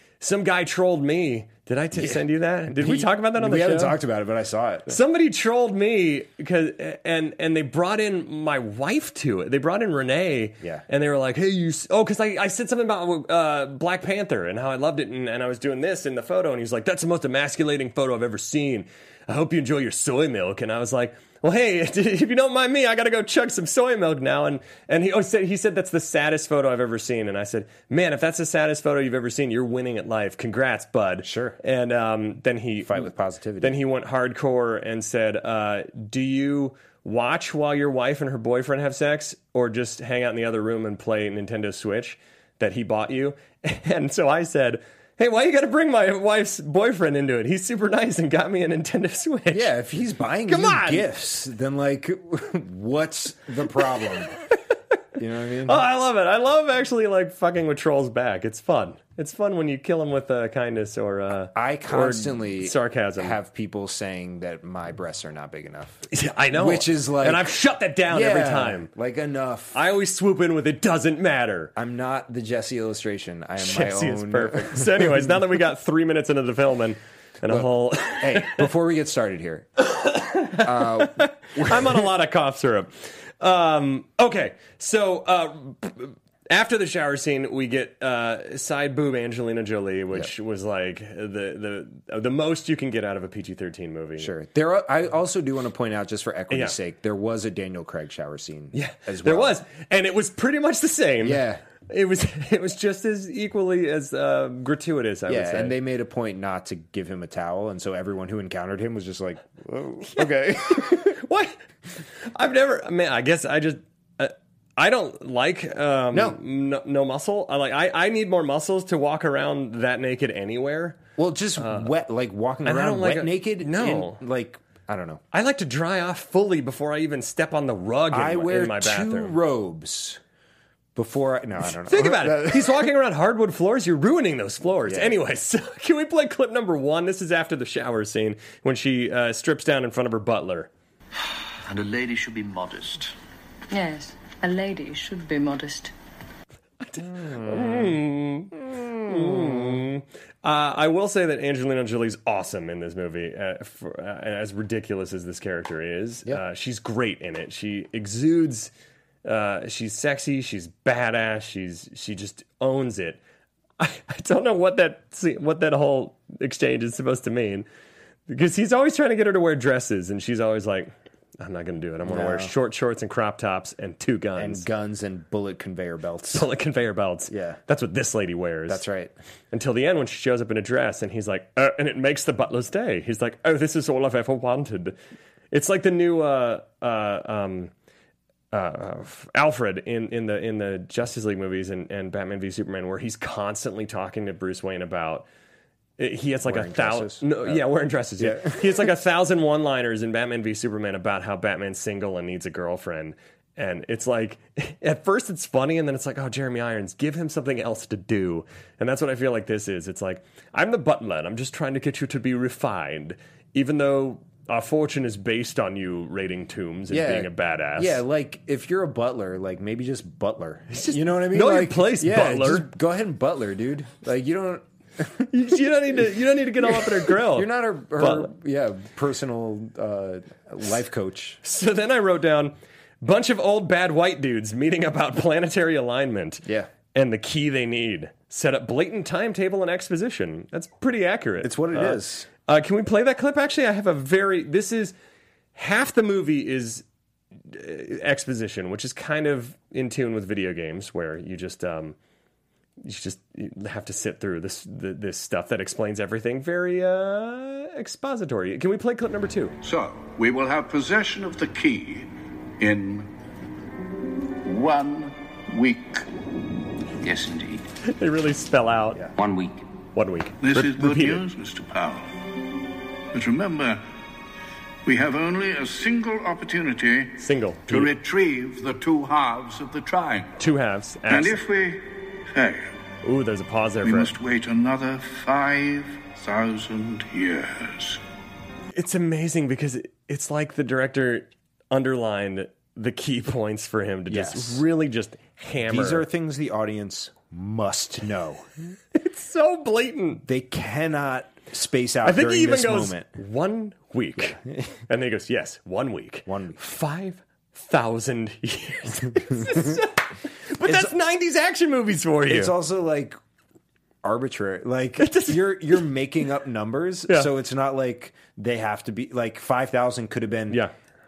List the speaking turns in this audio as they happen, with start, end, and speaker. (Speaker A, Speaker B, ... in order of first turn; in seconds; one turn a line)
Speaker A: 0.2-4.0
Speaker B: 1.9-5.0
Speaker A: 4.9-33.1
Speaker B: 31.2-31.6
Speaker B: 32.8-33.8
Speaker A: 33.6-49.7
Speaker B: 49.5-54.3
Speaker A: 50.5-51.1
Speaker B: 55.2-55.8
Speaker A: 55.6-63.4
Speaker B: 61.5-67.5
Speaker A: 66.1-68.9
Speaker B: 68.1-69.8
Speaker A: 69.7-71.7
Speaker B: 71.8-75.4
Speaker A: 73.6-78.7
Speaker B: 77.5-79.8
Speaker A: 79.8-94.3
Speaker B: 80.5-82.1
Speaker B: 94.2-99.6
Speaker A: 96.5-96.8
Speaker A: 98.7-105.8
Speaker B: 101.2-101.6
Speaker B: 105.3-111.2
Speaker A: 110.1-111.6
Speaker A: 112.3-121.0
Speaker B: 116.1-116.4
Speaker B: 121.2-125.2
Speaker A: 121.6-121.9
Speaker A: 122.6-124.2
Speaker A: 125.3-129.3
Speaker B: 128.1-130.2
Speaker B: 130.9-132.9
Speaker A: 131.9-140.7
Speaker B: 134.8-135.2
Speaker C: 141.6-143.1
Speaker D: 143.7-145.9
Speaker A: 146.8-158.7
Speaker B: 147.0-148.0
Speaker B: 148.5-149.8
Speaker A: 159.2-163.2
Speaker A: 163.8-167.7
Speaker A: 168.3-174.6
Speaker B: 172.1-172.5
Speaker B: 174.4-176.5
Speaker A: 176.3-178.8
Speaker B: 177.3-177.6
Speaker B: 178.7-179.1
Speaker A: 179.5-184.9
Speaker A: 185.5-187.7
Speaker A: 188.5-195.3
Speaker A: 196.0-218.0
Speaker B: 196.4-197.7
Speaker B: 198.2-198.9
Speaker B: 216.9-225.3
Speaker A: 220.7-222.7
Speaker A: 225.3-228.3
Speaker B: 226.6-231.4
Speaker A: 231.4-244.9
Speaker B: 236.4-236.7
Speaker B: 241.4-242.3
Speaker A: 245.5-246.8
Speaker A: 247.5-251.9
Speaker A: 252.8-259.6
Speaker E: 259.6-262.1
Speaker E: 262.6-263.1
Speaker E: 264.4-266.0
Speaker C: 267.0-267.7
Speaker A: 267.8-269.1
Speaker C: 269.1-269.6
Speaker A: 269.9-271.3
Speaker E: 270.4-272.1
Speaker E: 273.1-273.8
Speaker E: 274.9-277.1
Speaker A: 277.2-277.9
Speaker E: 277.7-280.3
Speaker A: 280.4-281.4
Speaker E: 281.1-282.7
Speaker A: 283.0-284.1
Speaker E: 283.8-288.0
Speaker A: 288.7-296.1
Speaker B: 294.1-294.6
Speaker B: 295.6-298.5
Speaker A: 298.9-300.2
Speaker B: 300.2-303.1
Speaker A: 302.0-312.5
Speaker B: 306.2-306.6
Speaker B: 309.3-309.8
Speaker B: 310.6-310.9
Speaker B: 312.3-313.2
Speaker B: 314.0-320.6
Speaker A: 315.0-315.8